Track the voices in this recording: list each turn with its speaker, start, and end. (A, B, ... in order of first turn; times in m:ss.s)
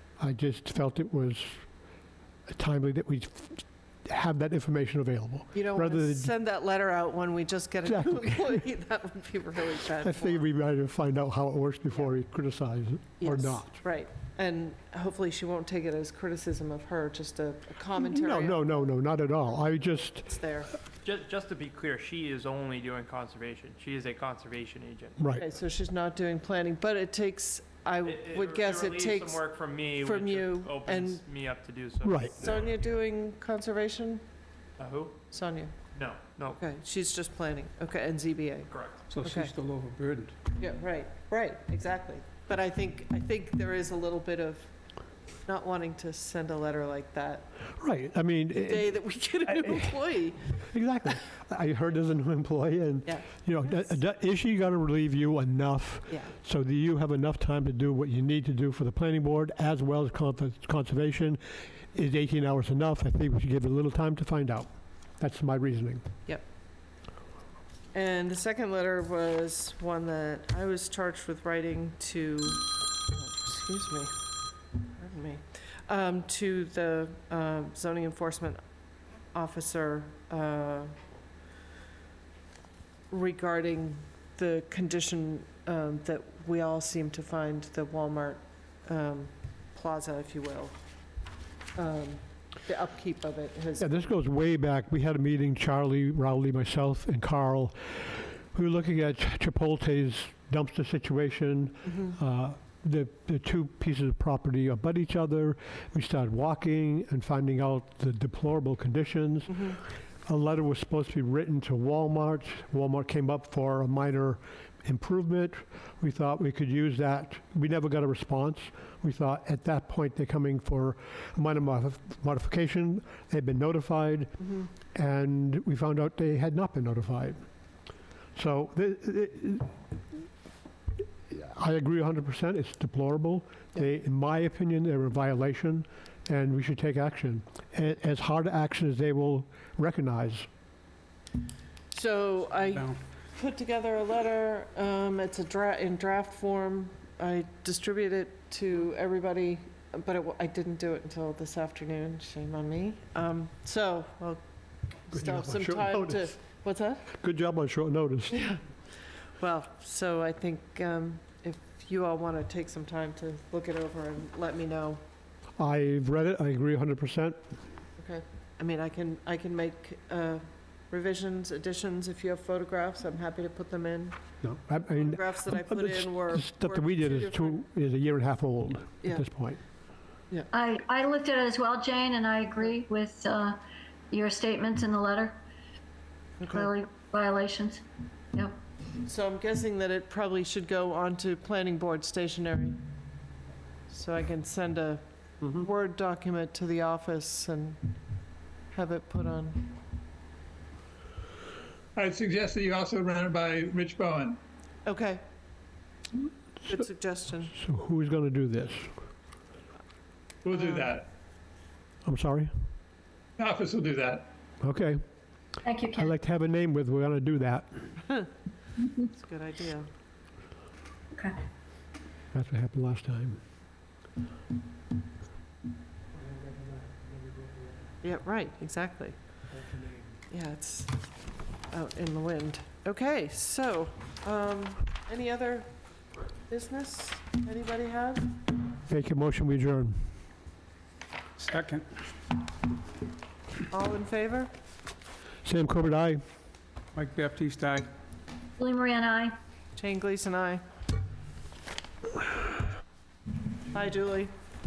0:00.2-0:01.6 A
0:02.5-0:06.3 A
0:05.5-0:10.5 B
0:07.8-0:08.6 A
0:10.0-0:13.8 A
0:13.2-0:18.6 B
0:18.0-0:20.3 A
0:20.3-0:20.7 B
0:21.0-0:25.2 C
0:25.2-0:25.4 A
0:25.4-0:29.4 B
0:28.0-0:32.8 C
0:30.0-0:31.2 B
0:32.0-0:32.3 A
0:32.3-0:34.2 B
0:34.8-0:35.2 C
0:35.3-0:35.7 B
0:35.9-0:36.6 C
0:36.6-0:39.5 B
0:38.7-0:39.0 C
0:39.1-0:40.4 D
0:40.6-0:44.7 B
0:45.4-0:47.5 B
0:47.8-1:06.0 A
0:48.6-0:50.7 B
0:53.0-0:54.0 B
1:07.9-1:14.1 B
1:14.9-1:18.6 B
1:19.3-1:20.9 B
1:23.1-1:30.8 B
1:31.7-1:34.0 B
1:33.8-2:07.4 A
2:08.4-2:09.7 A
2:11.3-2:20.5 A
2:21.9-2:34.4 B
2:35.0-2:37.1 B
2:35.1-2:36.3 A
2:37.1-2:38.5 A
2:38.3-2:45.0 B
2:45.6-2:47.4 A
2:48.0-2:54.2 B
2:54.4-2:59.6 A
2:54.9-2:57.6 B
3:00.5-3:05.4 E
3:06.4-3:06.6 B
3:06.5-3:08.6 E
3:09.0-3:12.8 B
3:13.9-3:17.8 B
3:18.7-3:19.7 B
3:22.0-3:24.4 F
3:24.8-3:25.2 B
3:26.7-3:27.5 B
3:27.5-3:28.9 A
3:30.4-3:31.1 F
3:30.5-3:30.9 B
3:32.0-3:32.5 A
3:33.4-3:34.3 F
3:34.6-3:35.0 A
3:35.6-3:36.1 E
3:35.9-3:37.9 A
3:38.9-3:39.9 B
3:42.3-3:43.4 A
3:48.0-3:49.2 B
3:50.3-3:51.0 B
3:51.6-3:55.7 B
3:56.5-3:58.3 B
3:58.9-4:00.0 A
4:01.4-4:02.0 D
4:03.7-4:04.5 B
4:05.4-4:06.2 A
4:06.9-4:07.9 D
4:08.6-4:09.4 E
4:09.7-4:10.6 B
4:13.7-4:14.3 B